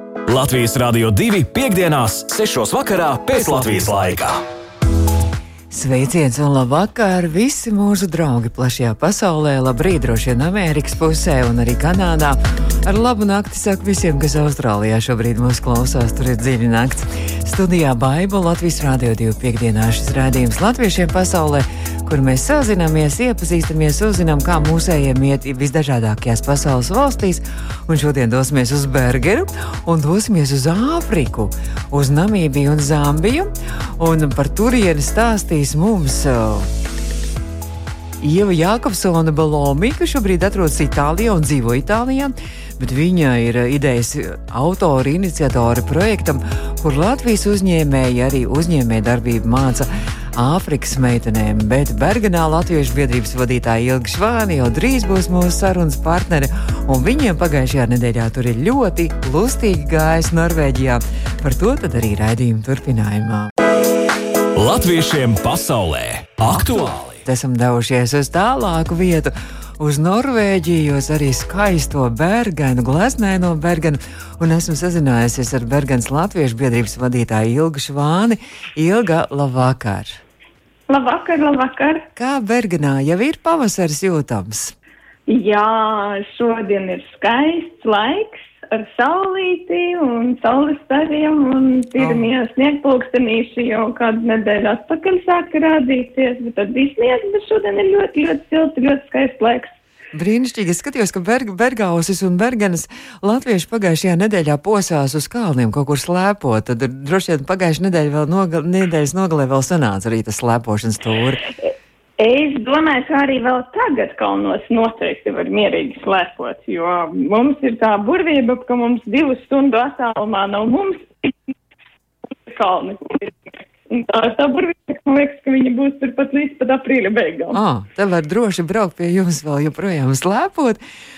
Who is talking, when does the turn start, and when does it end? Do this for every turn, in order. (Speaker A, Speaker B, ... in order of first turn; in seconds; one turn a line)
Speaker A: 0.3-4.4
Speaker B: 5.7-36.7
Speaker B: 38.2-63.5
Speaker A: 64.5-67.2
Speaker B: 67.2-80.2
Speaker C: 80.9-82.1
Speaker B: 82.2-84.7
Speaker C: 85.3-99.8
Speaker B: 92.0-92.3
Speaker B: 100.1-111.4
Speaker C: 112.2-121.5
Speaker C: 122.4-127.6
Speaker B: 127.5-130.8